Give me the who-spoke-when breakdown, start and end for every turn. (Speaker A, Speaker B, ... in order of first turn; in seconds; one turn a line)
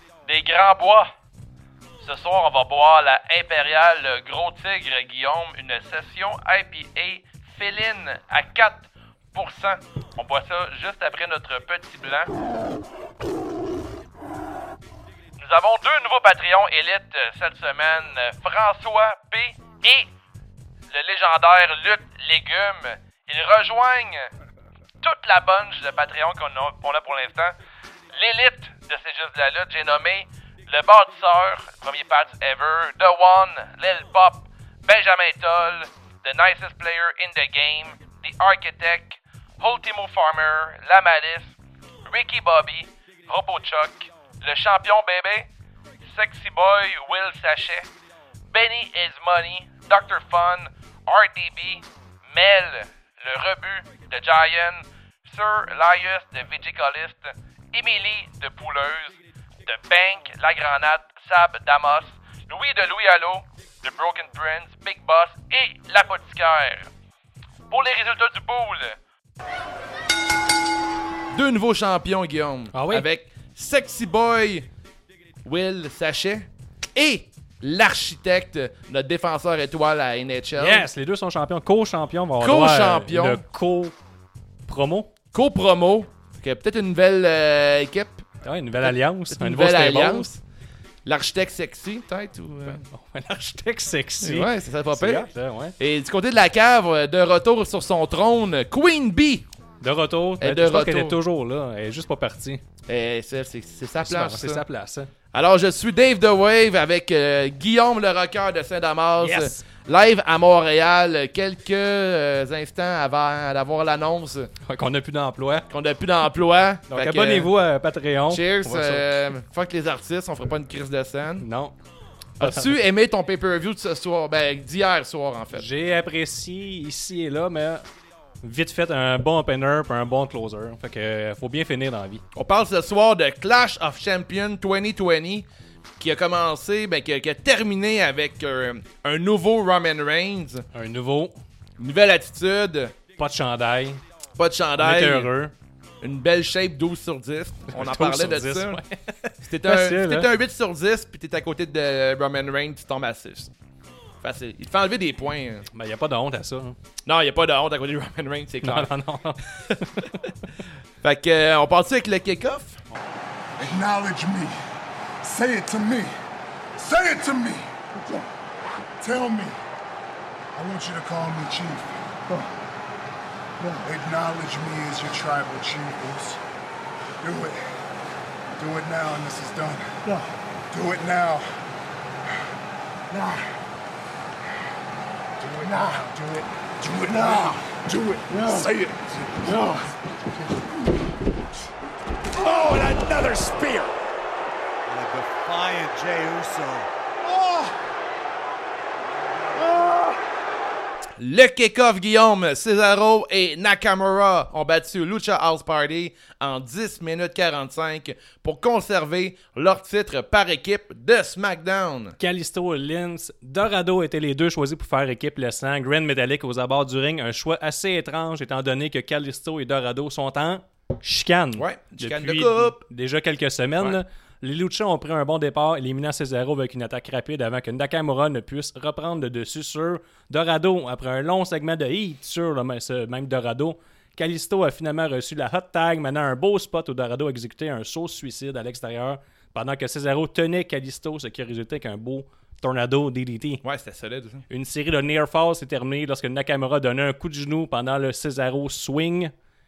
Speaker A: 0.3-1.1
Speaker A: 2.0-12.3
Speaker A: 15.4-20.1
Speaker A: 20.9-24.3
Speaker A: 25.0-27.6
Speaker A: 28.1-45.5
Speaker A: 46.0-47.9
Speaker A: 48.5-66.9
Speaker A: 67.7-69.0
Speaker A: 71.3-74.7
Speaker B: 72.7-73.1
Speaker A: 75.5-80.9
Speaker B: 80.6-84.0
Speaker A: 82.4-83.4
Speaker B: 84.7-85.1
Speaker A: 85.3-88.2
Speaker B: 88.4-90.3
Speaker A: 88.8-90.4
Speaker A: 91.0-92.8
Speaker B: 92.7-95.8
Speaker A: 94.2-99.5
Speaker B: 99.8-102.6
Speaker A: 100.4-101.2
Speaker A: 102.9-104.6
Speaker B: 104.0-105.1
Speaker A: 105.3-114.5
Speaker B: 109.2-109.6
Speaker B: 114.6-115.7
Speaker A: 115.7-117.5
Speaker B: 116.9-119.2
Speaker A: 118.3-121.5
Speaker B: 121.4-121.8
Speaker A: 122.4-125.7
Speaker B: 122.4-122.8
Speaker B: 125.5-127.8
Speaker B: 128.4-132.2
Speaker A: 132.3-135.5
Speaker A: 136.0-140.7
Speaker B: 140.7-141.4
Speaker A: 141.8-143.0
Speaker B: 143.2-144.0
Speaker A: 144.4-145.3
Speaker B: 144.8-145.5
Speaker A: 146.0-148.8
Speaker B: 147.7-150.3
Speaker A: 149.4-153.5
Speaker A: 154.2-155.7
Speaker B: 155.7-156.8
Speaker A: 157.1-158.9
Speaker B: 158.6-160.1
Speaker A: 159.5-160.2
Speaker A: 161.0-162.8
Speaker C: 163.6-164.6
Speaker C: 165.2-166.1
Speaker C: 166.7-168.3
Speaker C: 169.0-169.6
Speaker C: 170.6-172.5
Speaker C: 173.6-176.4
Speaker C: 177.2-177.6
Speaker C: 178.6-181.5
Speaker C: 183.1-183.6
Speaker C: 185.4-189.9
Speaker C: 192.4-193.9
Speaker D: 192.8-193.2
Speaker D: 194.9-196.9
Speaker C: 197.2-197.7
Speaker C: 199.6-200.1
Speaker A: 201.2-212.2
Speaker B: 212.2-243.6
Speaker A: 221.6-222.8
Speaker A: 243.6-244.5
Speaker B: 244.5-249.3